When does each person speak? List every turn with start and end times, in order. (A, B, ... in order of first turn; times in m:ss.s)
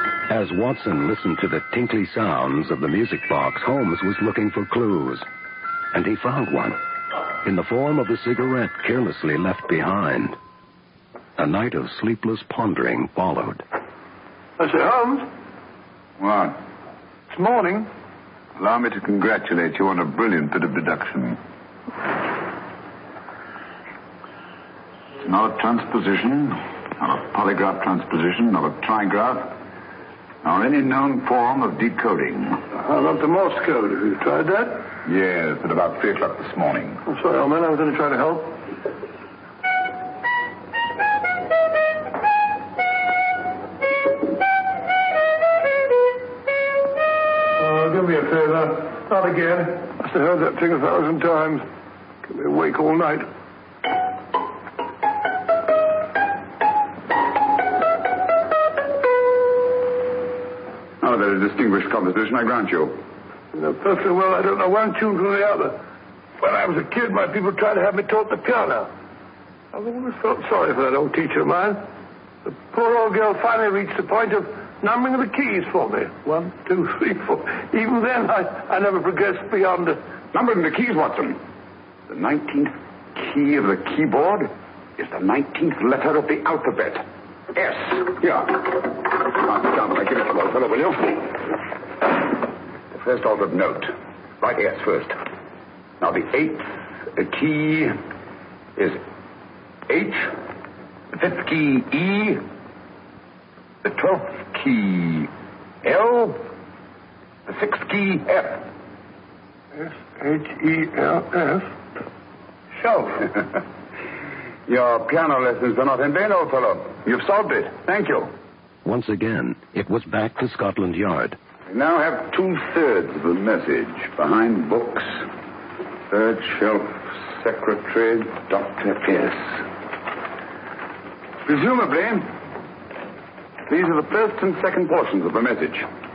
0:00.3-0:05.3 A
0:05.9-0:06.8 A
0:07.4-0:10.4 A
0:11.4-0:13.6 A
0:14.6-0:15.3 B
0:16.2-0:16.6 C
0:17.3-0:17.9 B
0:18.6-0:21.4 C
0:25.2-0:29.6 C
0:30.4-0:32.6 C
0:32.8-0:34.9 B
0:35.0-0:37.0 C
0:37.1-0:38.6 B
0:47.6-0:51.6 B
0:52.3-0:53.3 B
1:01.0-1:03.0 C
1:03.5-1:05.8 B
1:06.4-1:08.9 B
1:09.7-1:11.8 B
1:12.4-1:20.0 B
1:20.3-1:21.4 C
1:22.1-1:31.4 C
1:32.9-1:35.2 C
1:36.0-1:38.0 C
1:39.9-1:40.3 C
1:41.1-1:42.4 C
1:43.8-1:45.3 C
1:45.8-1:46.4 C
1:47.5-1:48.7 C
1:49.7-1:51.7 B
1:52.8-1:53.5 C
1:54.7-1:58.3 C
1:58.8-2:01.4 A
2:01.7-2:05.3 C
2:06.1-2:09.6 C
2:11.4-2:12.3 C
2:13.7-2:15.9 C